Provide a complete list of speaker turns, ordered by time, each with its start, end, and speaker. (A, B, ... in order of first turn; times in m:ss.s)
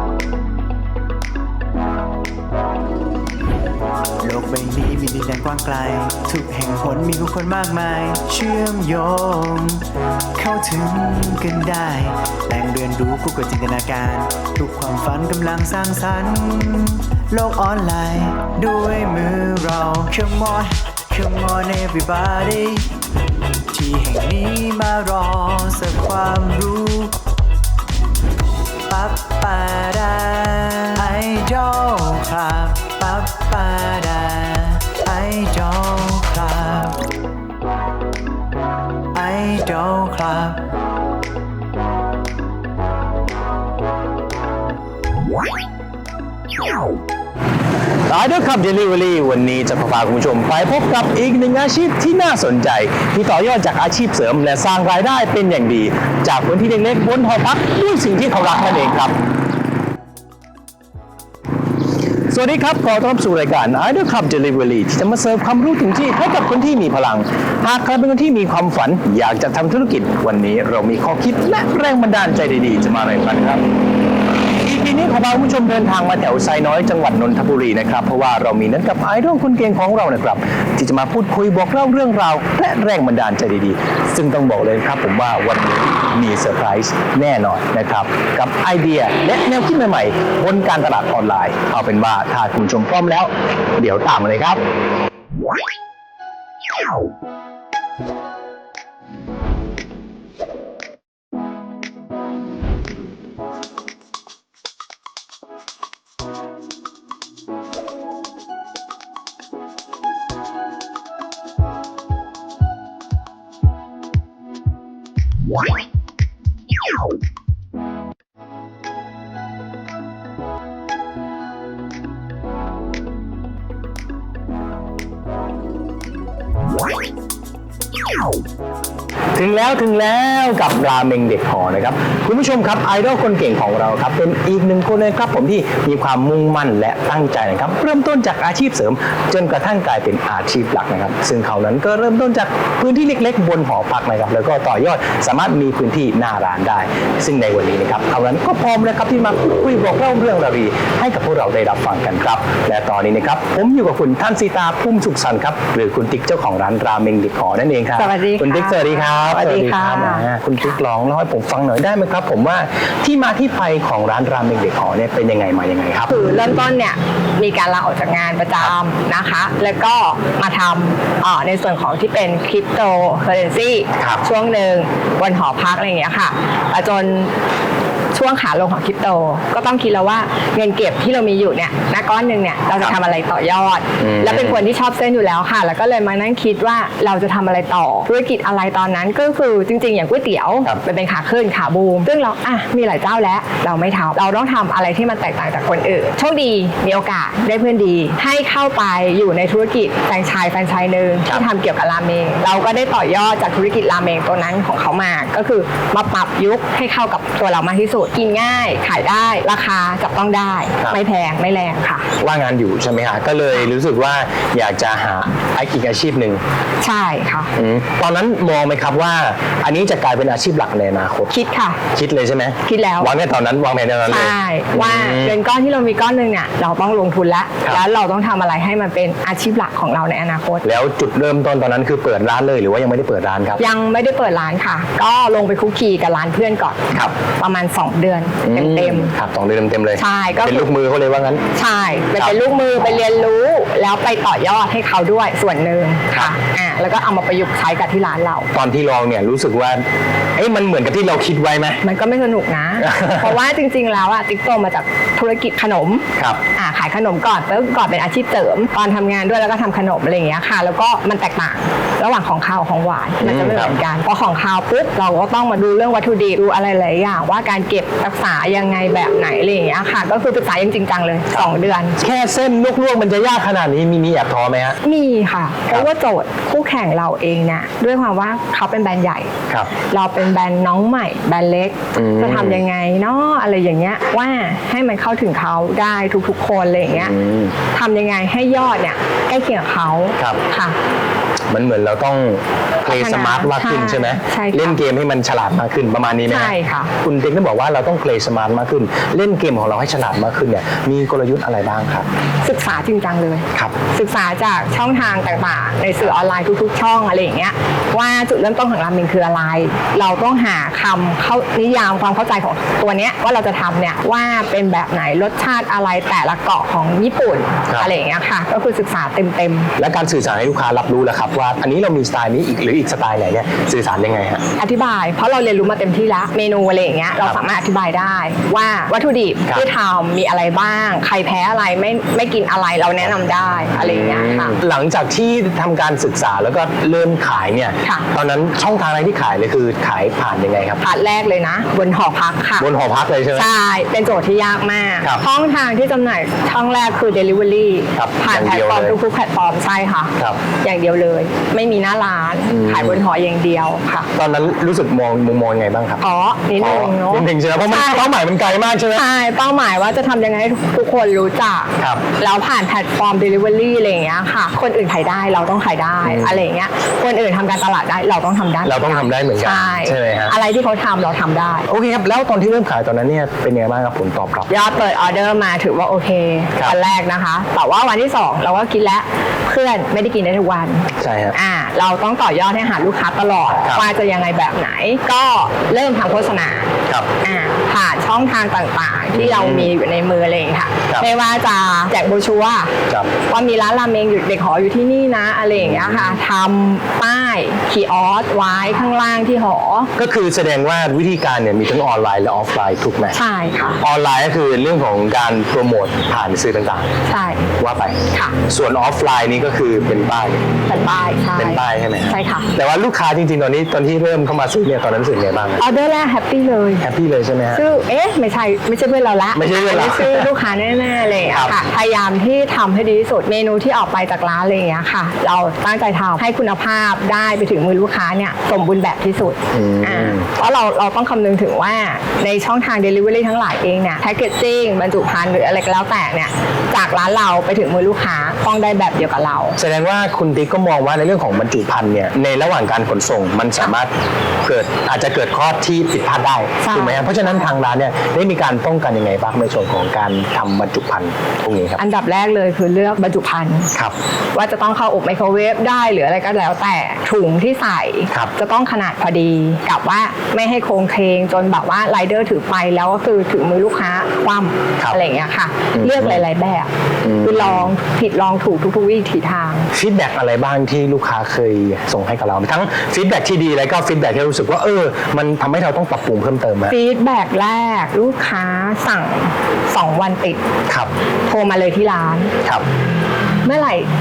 0:04.2-0:09.8 A
0:10.3-0:22.9 A
0:23.7-0:27.2 A
0:28.9-0:37.0 A
0:39.1-0:40.6 A
0:48.1-0:59.2 B
1:02.3-1:13.6 B
1:14.6-1:34.6 B
2:09.3-2:46.1 B
2:38.0-2:40.8 C
2:46.1-2:57.4 C
2:54.0-2:54.2 B
2:58.1-3:32.1 C
3:04.0-3:04.6 B
3:32.2-3:36.4 B
3:36.8-3:37.5 C
3:37.5-3:41.3 B
3:41.3-3:41.8 C
3:41.9-3:45.4 B
3:42.6-3:43.1 C
3:44.1-3:50.6 C
3:50.6-3:53.6 B
3:53.6-3:59.1 C
3:58.4-4:01.4 B
4:00.0-4:00.7 C
4:01.5-4:08.5 C
4:08.5-4:09.8 B
4:10.3-4:11.8 B
4:11.8-4:32.0 C
4:12.8-4:13.3 B
4:16.2-4:16.4 B
4:23.2-4:23.8 B
4:31.3-4:34.8 B
4:34.8-4:47.1 C
4:41.9-4:42.6 B
4:46.9-4:47.6 B
4:47.7-4:50.8 C
4:51.5-5:02.1 B
4:52.8-4:54.8 C
4:56.3-4:56.9 C
5:02.4-5:19.7 C
5:19.8-5:24.4 B
5:24.6-5:34.6 C
5:33.7-5:40.8 B
5:40.8-5:42.7 C
5:42.6-5:43.5 B
5:43.3-5:54.1 C
5:47.9-5:49.0 B
5:52.5-5:53.0 B
5:54.1-5:56.0 B
5:56.0-5:58.1 C
5:56.6-5:59.0 B
5:58.9-6:11.7 C
6:01.8-6:02.0 B
6:06.0-6:06.4 B
6:08.6-6:10.4 B
6:11.7-6:14.5 B
6:14.5-6:32.7 C
6:16.5-6:16.8 B
6:21.0-6:21.3 B
6:23.6-6:23.8 B
6:29.1-6:29.7 B
6:33.2-6:39.9 C
6:35.5-6:36.2 B
6:40.0-6:43.2 B
6:43.1-6:43.8 C
6:43.8-6:47.0 B
6:47.0-6:47.5 C
6:47.6-6:50.5 B
6:48.1-6:48.4 C
6:50.7-6:52.5 C
6:51.3-6:55.6 B
6:55.6-6:56.8 C
6:56.8-6:57.6 B
6:57.5-7:19.6 C
6:59.3-7:00.3 B
7:01.3-7:01.6 B
7:09.5-7:10.3 B
7:19.6-7:23.9 B
7:24.4-7:31.8 B
7:26.6-7:27.5 C
7:31.8-7:33.7 C
7:34.3-7:49.7 C
7:45.7-7:46.2 B
7:47.0-7:47.7 B
7:49.7-7:56.7 B
7:56.7-8:00.4 C
8:01.3-8:02.3 C
8:03.4-8:03.9 C